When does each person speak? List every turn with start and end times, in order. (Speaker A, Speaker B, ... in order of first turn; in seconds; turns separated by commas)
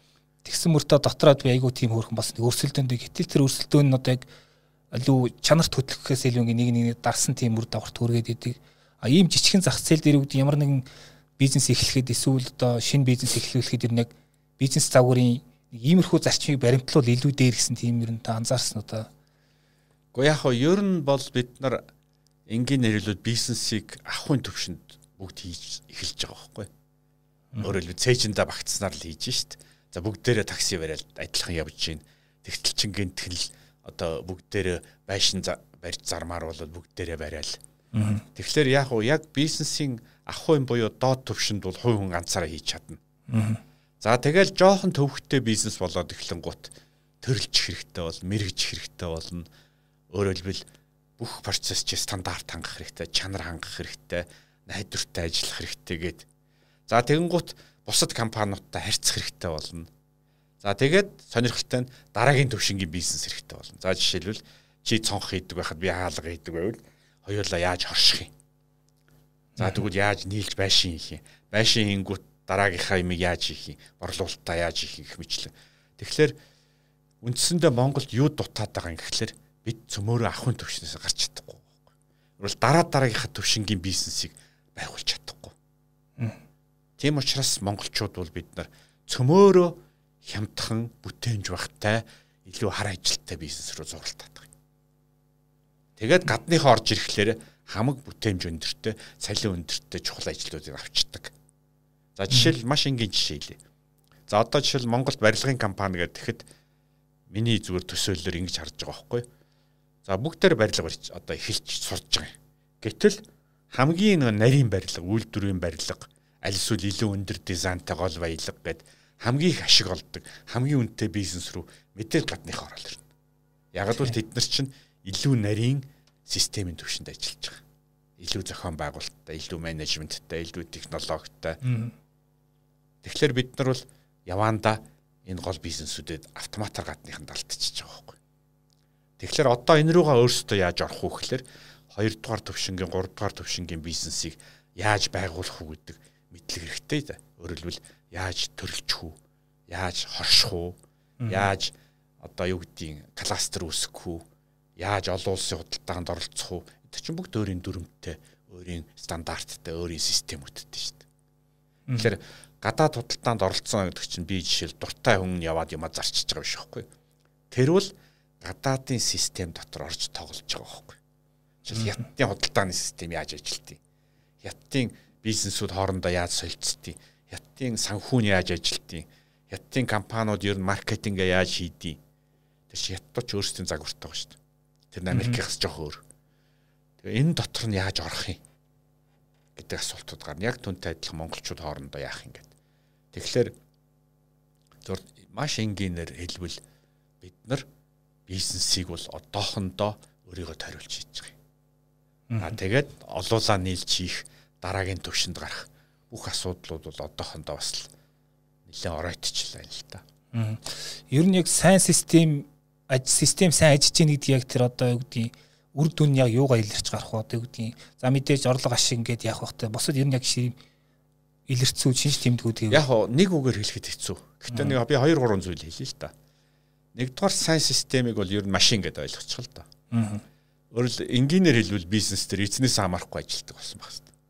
Speaker A: 0.4-4.2, Speaker A: 4.9-10.8, Speaker A: 11.4-19.1, Speaker B: 20.1-21.8, Speaker B: 22.5-26.7, Speaker B: 27.6-37.6, Speaker A: 37.9-38.2, Speaker B: 38.3-43.0, Speaker A: 43.3-43.6, Speaker B: 44.0-49.5, Speaker B: 50.1-50.6, Speaker B: 51.2-56.2, Speaker B: 56.9-59.9, Speaker B: 60.6-68.3, Speaker A: 69.6-69.8, Speaker B: 69.6-76.3, Speaker B: 77.2-81.7, Speaker B: 82.4-85.5, Speaker B: 87.0-94.5, Speaker B: 96.0-101.3, Speaker B: 102.2-103.6, Speaker B: 104.3-106.5, Speaker B: 107.3-109.3, Speaker B: 110.0-123.0, Speaker B: 123.7-127.6, Speaker B: 128.2-131.6, Speaker A: 131.6-131.9, Speaker B: 133.0-138.2, Speaker B: 139.2-154.2, Speaker A: 151.2-151.5, Speaker B: 154.8-161.0, Speaker B: 161.9-166.9, Speaker B: 167.5-171.0, Speaker B: 171.7-173.8, Speaker A: 171.7-172.0, Speaker B: 174.4-182.0, Speaker B: 182.7-184.4, Speaker B: 184.9-186.0, Speaker A: 185.1-185.4, Speaker B: 187.0-188.4, Speaker B: 189.5-192.5, Speaker B: 193.1-193.5, Speaker B: 194.8-196.6, Speaker B: 197.2-197.7, Speaker B: 198.3-201.3, Speaker A: 202.3-202.6, Speaker B: 202.4-207.9, Speaker B: 208.7-210.0, Speaker A: 210.3-220.6, Speaker A: 221.5-222.8, Speaker B: 222.7-226.1, Speaker A: 224.5-224.8, Speaker B: 226.9-229.7, Speaker A: 229.9-230.2, Speaker B: 230.7-234.1